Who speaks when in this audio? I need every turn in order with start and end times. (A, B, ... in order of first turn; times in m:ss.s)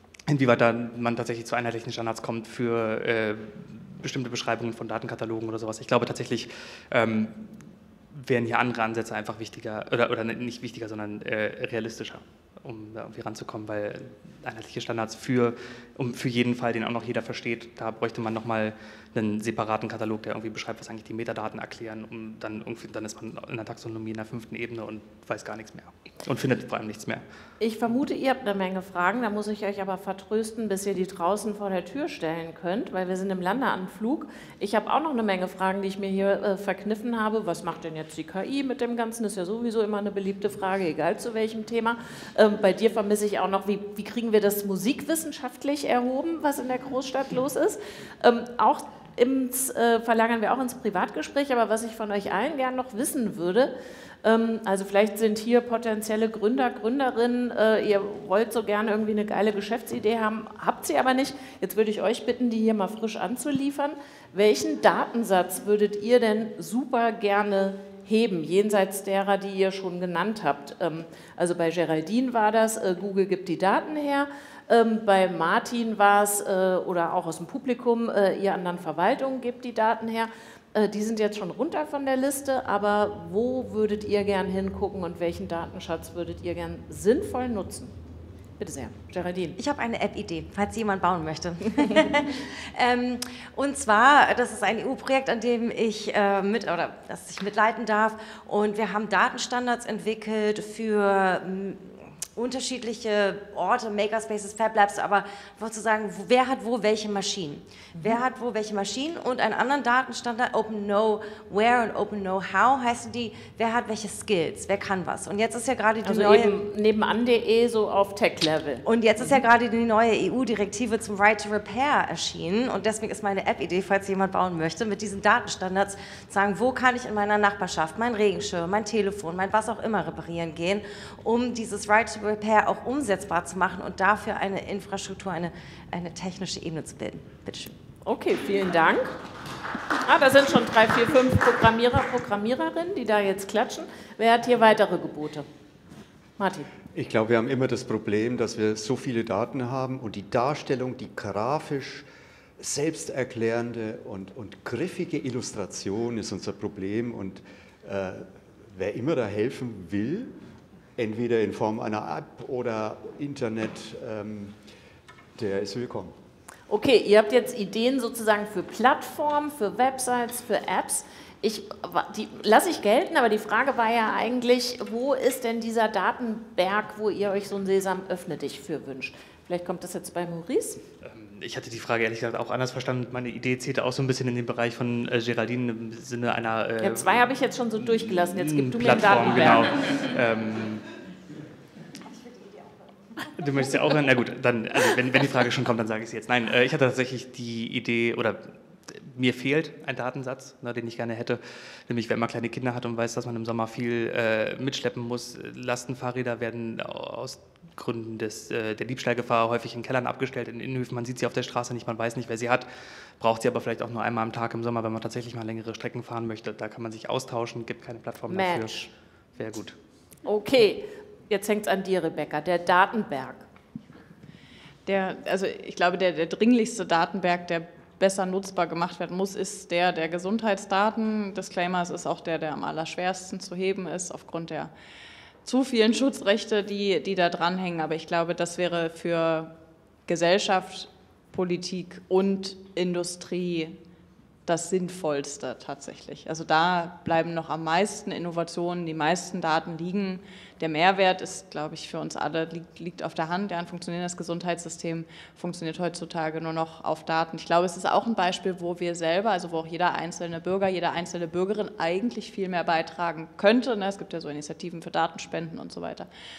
0:00.3-0:27.2 A
0:27.6-0:53.7 B
0:54.2-1:27.9 B
1:28.6-1:29.6 B
1:29.6-1:56.5 C
1:56.0-1:58.8 B
1:58.8-2:17.8 C
2:18.0-2:19.1 B
2:20.0-2:25.5 B
2:26.4-2:26.7 B
2:26.9-2:32.1 D
2:32.6-2:40.3 D
2:41.0-2:44.6 D
2:45.4-2:46.1 D
2:46.7-3:00.8 B
3:01.0-3:10.9 A
3:06.8-3:09.7 B
3:13.2-3:32.7 A
3:33.2-3:39.8 A
3:38.3-3:38.9 B
3:40.2-3:43.4 B
3:44.9-3:54.7 E
3:55.4-3:59.6 E
4:00.1-4:03.8 E
4:04.5-4:26.1 E